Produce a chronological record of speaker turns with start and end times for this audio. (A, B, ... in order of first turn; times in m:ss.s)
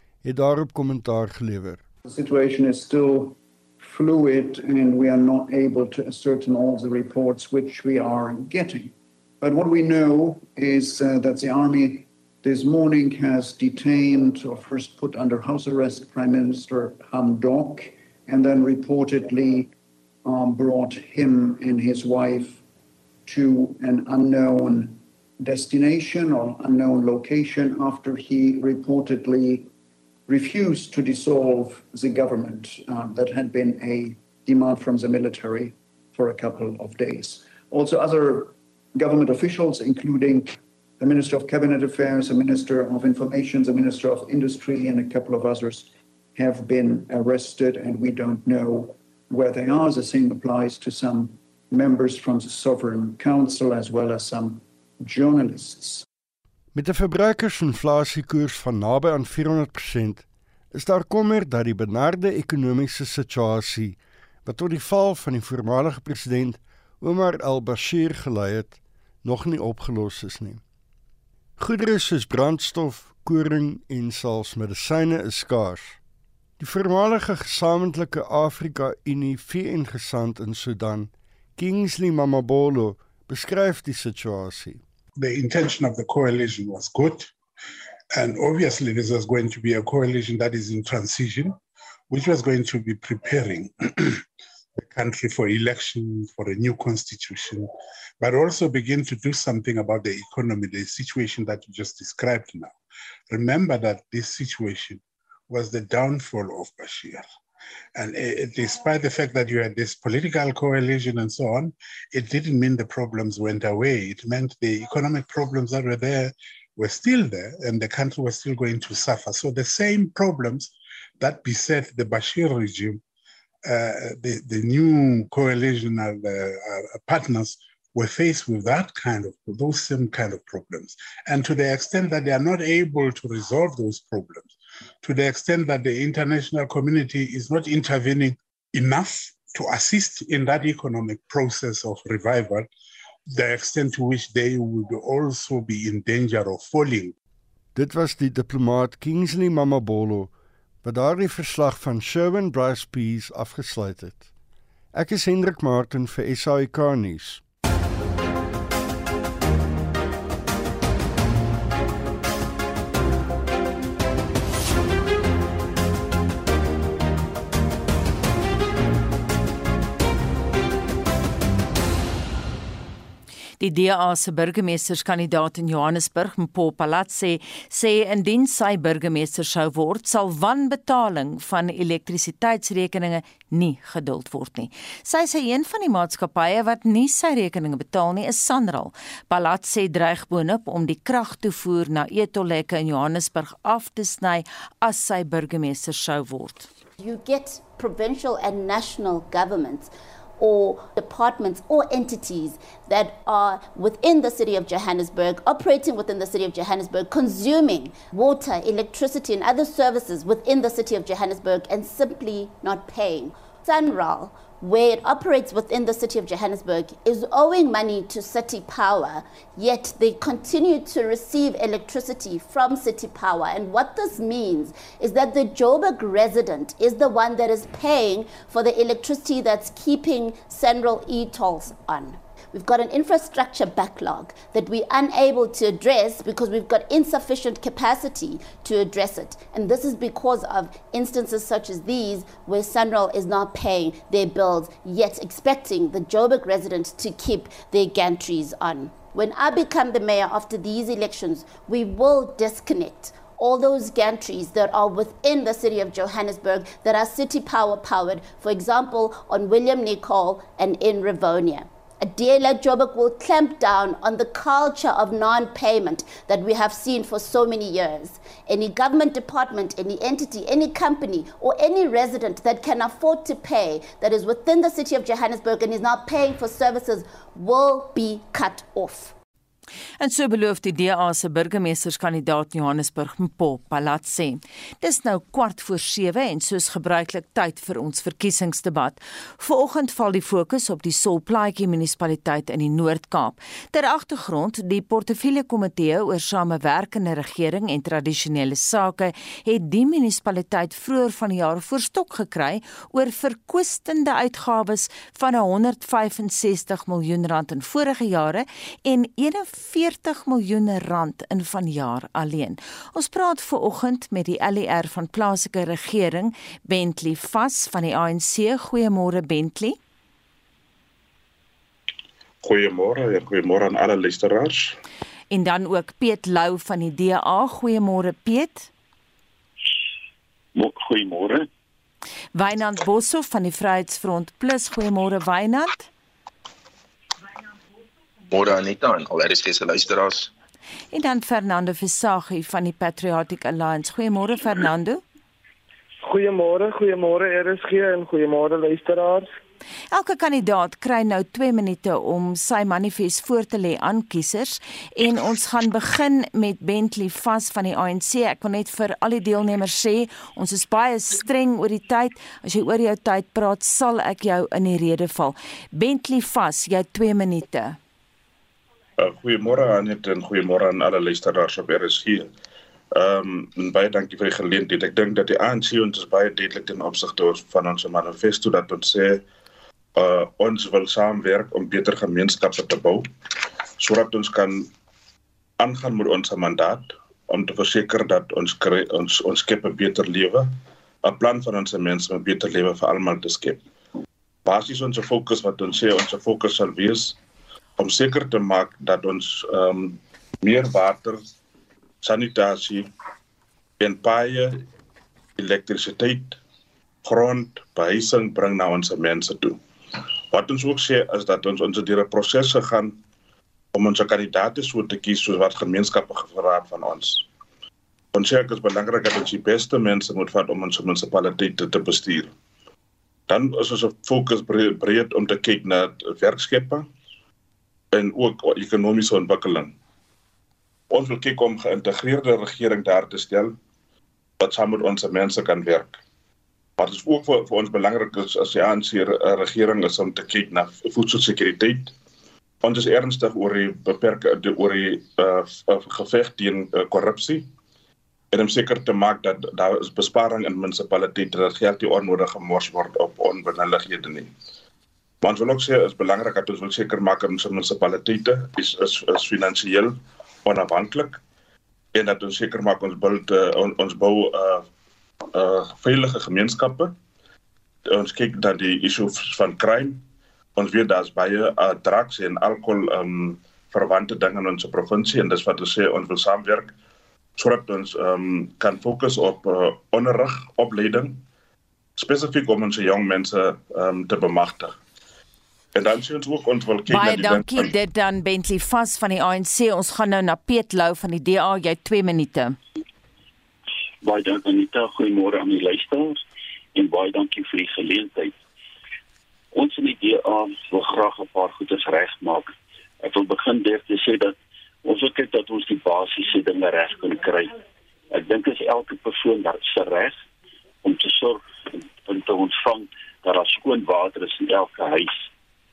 0:00.2-0:01.8 A
0:02.0-0:19.7 B
0:20.2-0:22.6 B
0:23.3-0:29.7 B
0:30.3-0:56.0 B
0:56.7-1:10.6 A
1:11.6-1:16.0 A
1:16.6-1:24.8 A
1:25.2-1:27.3 C
1:28.1-1:31.6 C
1:32.1-1:34.2 C
1:34.8-1:42.8 C
1:43.3-1:47.2 C
1:48.0-2:03.0 C
2:03.6-2:22.7 C
2:23.3-2:27.1 C
2:27.8-2:30.3 A
2:30.8-2:34.3 A
2:34.9-2:37.4 A
2:53.6-3:16.7 D
3:17.0-4:39.1 E
4:40.0-5:19.8 D
5:22.4-5:24.8 F
5:25.3-5:28.7 D
5:30.6-5:31.5 G
5:32.3-5:35.9 D
5:38.3-5:40.3 H
5:40.9-5:45.0 D
5:46.0-5:49.3 I
5:49.9-6:07.8 D
6:09.0-6:12.3 F
6:12.9-6:19.2 F
6:20.0-6:23.1 F
6:23.8-6:24.7 F
6:25.6-6:30.5 F
6:31.0-6:33.6 F
6:34.5-6:37.2 F
6:37.8-6:41.2 F
6:42.0-6:42.9 F
6:43.8-6:44.6 F
6:45.4-6:46.4 F
6:47.0-6:53.0 F
6:53.7-6:57.3 F
6:58.1-7:02.3 F
7:03.3-7:06.9 F
7:07.9-7:09.7 F
7:10.9-7:13.6 F
7:14.4-7:16.0 F
7:16.8-7:21.9 F
7:22.6-7:27.5 F
7:28.3-7:34.3 F
7:35.2-7:41.2 F
7:42.0-7:44.7 F
7:45.3-7:47.0 F
7:47.9-7:50.0 F
7:50.6-7:56.7 F
7:57.4-8:01.2 F
8:02.0-8:04.8 F
8:05.8-8:07.7 F
8:06.9-8:12.6 D
8:14.0-8:16.2 G
8:16.8-8:18.4 G
8:19.5-8:22.5 G
8:23.0-8:27.6 G
8:28.1-8:30.2 G
8:30.8-8:35.3 G